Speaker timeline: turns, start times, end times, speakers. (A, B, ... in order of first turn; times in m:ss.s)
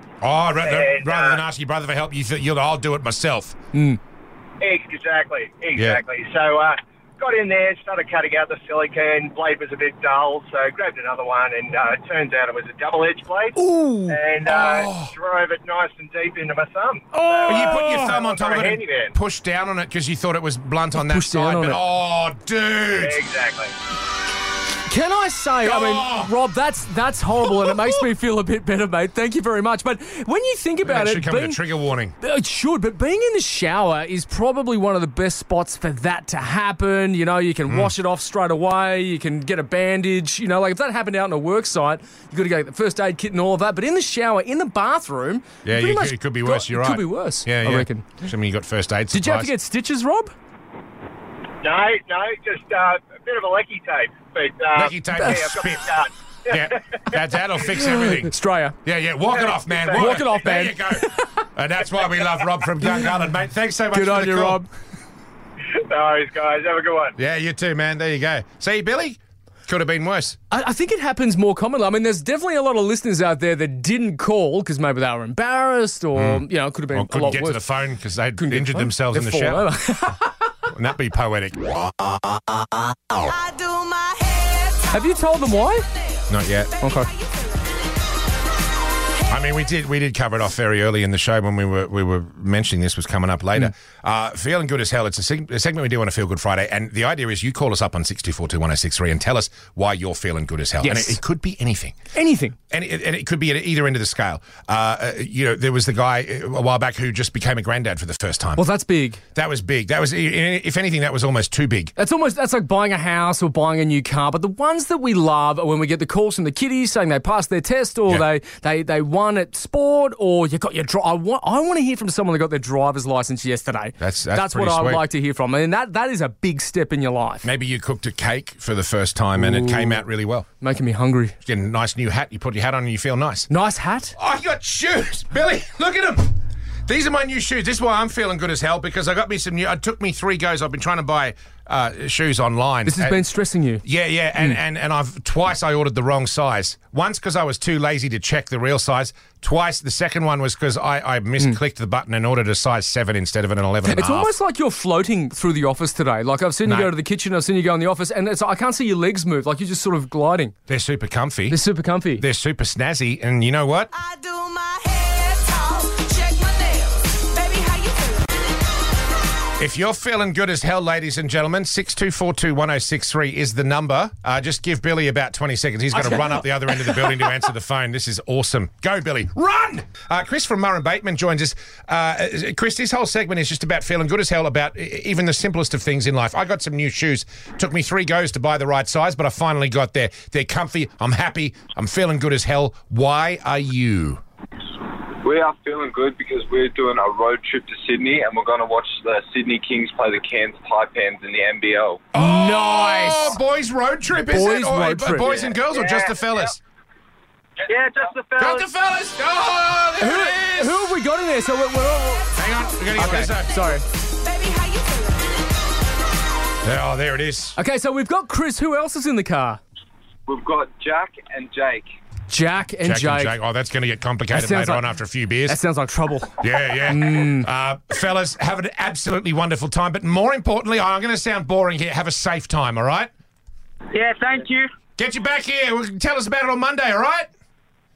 0:00.2-0:03.6 A
0:00.6-0:01.4 B
0:03.7-0:04.0 C
0:04.6-0:13.6 B
0:05.8-0:06.0 A
0:13.6-0:14.2 C
0:14.1-0:19.1 B
0:14.5-0:15.1 A
0:17.1-0:18.2 C
0:17.5-0:23.2 A
0:21.0-0:21.8 C
0:23.0-0:23.7 B
0:24.9-0:31.6 C
0:25.6-0:26.3 A
0:30.8-0:32.1 A
0:32.2-0:48.2 C
0:37.7-0:37.9 A
0:45.6-0:49.5 A
0:49.1-0:50.3 C
0:51.6-0:57.2 B
0:54.8-0:56.0 A
0:55.1-0:55.6 C
0:56.5-0:58.3 A
0:57.8-0:58.8 C
0:58.8-1:04.6 A
0:59.3-1:00.4 B
0:59.9-1:01.3 C
1:03.9-1:04.7 C
1:05.8-1:07.1 B
1:07.2-1:10.4 A
1:10.5-1:17.6 C
1:16.1-1:19.6 A
1:18.4-1:20.5 C
1:20.7-1:21.8 A
1:23.3-1:24.8 D
1:24.9-1:25.9 C
1:26.3-1:26.8 A
1:26.8-1:27.1 C
1:29.3-1:42.0 A
1:40.8-1:41.2 C
1:42.1-1:42.6 C
1:42.7-1:48.6 A
1:48.6-1:49.2 C
1:49.4-1:51.9 A
1:52.0-2:07.5 C
2:04.0-2:05.0 A
2:07.4-2:10.5 A
2:09.4-2:10.0 C
2:10.6-2:11.4 C
2:11.4-2:13.5 A
2:13.5-2:14.1 C
2:14.2-2:16.3 A
2:16.9-2:23.2 A
2:22.8-2:23.8 C
2:23.8-2:34.3 A
2:33.8-2:40.5 C
2:36.6-2:36.9 A
2:40.7-2:41.6 A
2:41.5-2:42.2 C
2:42.2-2:43.9 A
2:44.0-2:48.2 D
2:49.6-3:14.2 A
2:55.9-2:57.4 C
3:15.2-3:22.0 E
3:22.1-3:26.6 A
3:22.1-3:23.4 C
3:24.3-3:25.4 C
3:25.2-3:26.2 E
3:27.7-3:28.7 E
3:28.4-3:30.8 A
3:30.0-3:32.3 C
3:32.4-3:33.6 A
3:33.0-3:33.8 C
3:34.3-3:35.3 D
3:36.6-3:37.6 A
3:37.6-3:39.6 C
3:40.3-3:41.9 E
3:42.3-3:43.4 C
3:42.8-3:45.6 A
3:44.3-3:45.0 C
3:45.5-3:47.5 C
3:46.4-3:53.1 A
3:54.2-3:54.6 E
3:55.0-3:57.3 A